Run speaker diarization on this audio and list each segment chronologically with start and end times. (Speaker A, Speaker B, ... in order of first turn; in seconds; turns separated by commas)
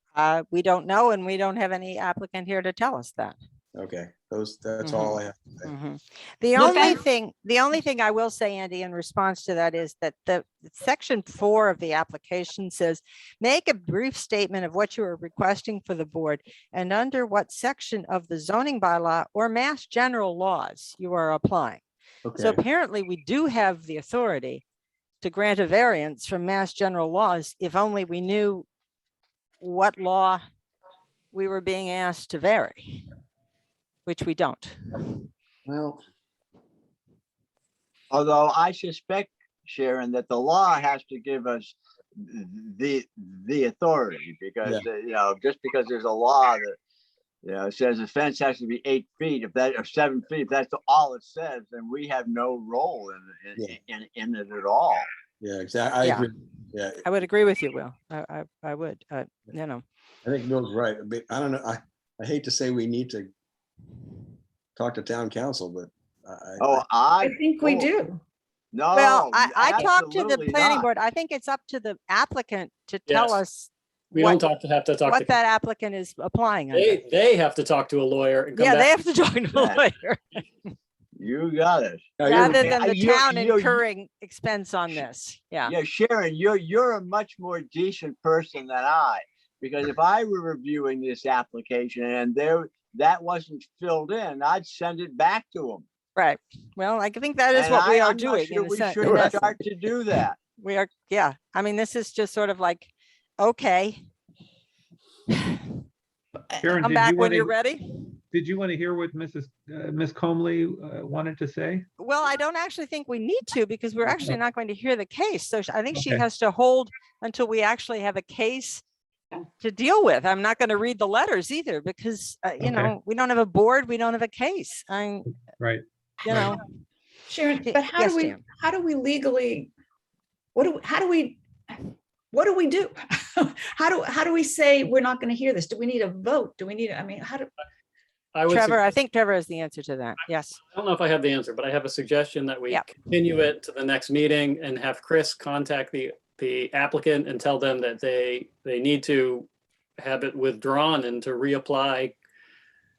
Speaker A: 0.1-3.4, Speaker B: 3.7-5.7, Speaker A: 4.8-21.8, Speaker C: 6.6-7.0, Speaker B: 22.2-22.6, Speaker A: 22.4-24.6, Speaker A: 25.2-28.7, Speaker A: 29.6-30.4, Speaker A: 31.3-33.0, Speaker A: 34.0-35.2, Speaker B: 35.6-36.0, Speaker D: 38.1-46.8, Speaker D: 47.4-55.1, Speaker B: 55.4-57.0, Speaker A: 56.0-56.3, Speaker A: 57.0-59.8, Speaker B: 60.2-63.3, Speaker B: 64.8-66.8, Speaker D: 66.6-67.9, Speaker C: 67.2-68.2, Speaker D: 68.7-70.9, Speaker A: 68.9-74.4, Speaker E: 73.1-73.4, Speaker E: 74.1-75.3, Speaker A: 75.1-77.0, Speaker E: 76.7-78.9, Speaker A: 78.5-80.4, Speaker D: 79.5-79.8, Speaker D: 81.2-83.8, Speaker B: 82.2-82.7, Speaker A: 82.2-85.7, Speaker D: 85.7-95.8, Speaker A: 96.2-99.5, Speaker D: 97.5-100.4, Speaker A: 100.6-104.0, Speaker F: 106.6-107.5, Speaker A: 106.8-107.9, Speaker F: 108.3-111.8, Speaker A: 112.0-118.8, Speaker F: 114.1-114.4, Speaker F: 115.9-116.2, Speaker A: 119.6-125.3, Speaker F: 122.6-122.9, Speaker F: 125.5-126.6, Speaker A: 126.2-126.6, Speaker C: 127.3-129.7, Speaker A: 127.6-128.4, Speaker C: 130.5-131.8, Speaker C: 132.3-137.5, Speaker E: 138.3-138.8, Speaker A: 138.5-140.6, Speaker E: 140.7-149.5, Speaker E: 150.0-152.2